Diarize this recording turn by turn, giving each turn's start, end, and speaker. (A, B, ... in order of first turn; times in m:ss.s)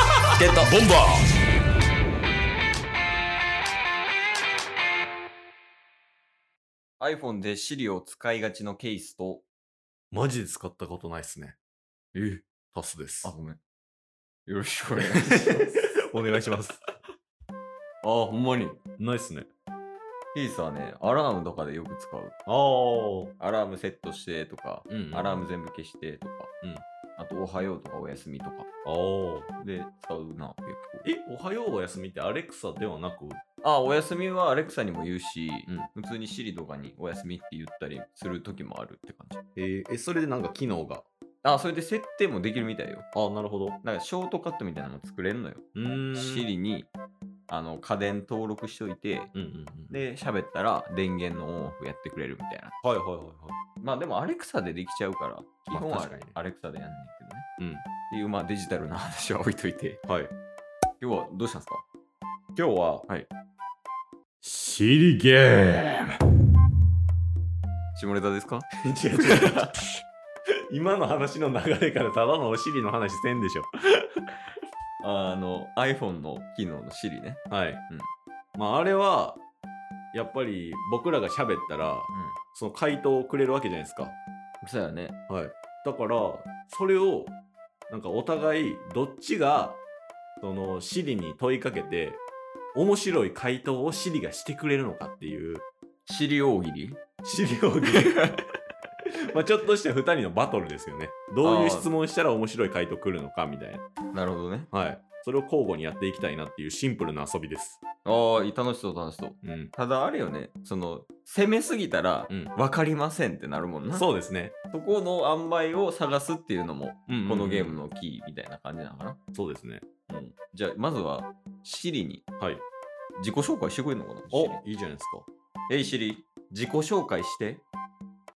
0:00.4-0:00.8 A
0:00.6-0:01.3 B
0:07.0-0:09.4 A
0:10.1-0:11.6 B
0:12.1-0:12.5 A
0:12.7-0:13.3 B
0:13.2-0:13.6 A
0:14.5-0:15.9 A
0:15.3-0:16.8 B
0:18.0-0:18.8 A
0:19.0-0:19.5 B
0:20.3-0:22.4 A
0:22.5-0:23.3 B
0:23.4-0:26.5 A
0:24.9-0:25.5 B
0:27.2-0:28.7 A
0:28.8-0:29.5 B
0:29.6-0:31.1 A
0:31.0-0:33.4 B
0:33.6-0:39.4 A
0:39.6-0:41.1 B
0:41.4-0:43.1 A
0:43.1-0:43.8 B
0:43.8-0:46.9 A
0:45.8-0:46.5 B
0:47.5-0:49.3 A
0:49.3-0:50.0 B
0:49.9-0:52.7 A
0:52.8-0:53.6 B
0:53.8-0:57.5 A
0:55.7-0:56.4 B
0:57.6-0:57.8 B
0:58.1-1:00.0 A
1:00.1-1:00.3 B
1:01.0-1:01.8 A
1:02.6-1:03.1 B
1:04.4-1:06.2 B
1:08.0-1:09.7 A
1:08.8-1:09.7 B
1:10.7-1:13.7 B
1:15.0-1:18.1 A
1:17.5-1:17.8 B
1:18.6-1:19.4 B
1:20.1-1:24.2 B
1:22.1-1:22.4 A
1:24.6-1:25.2 A
1:25.3-1:27.4 B
1:27.9-1:29.8 B
1:30.4-1:32.2 B
1:32.8-1:35.6 B
1:36.1-1:37.0 A
1:37.2-1:38.3 B
1:37.9-1:38.4 A
1:39.3-1:43.8 B
1:41.4-1:41.9 A
1:44.1-1:44.7 A
1:44.7-1:47.8 B
1:48.0-1:54.1 A
1:49.4-1:49.7 B
1:53.9-1:54.6 B
1:54.7-1:59.2 A
1:57.1-1:57.8 B
1:59.3-1:59.8 B
2:00.1-2:02.2 A
2:03.2-2:04.6 A
2:04.3-2:05.3 B
2:05.7-2:07.6 A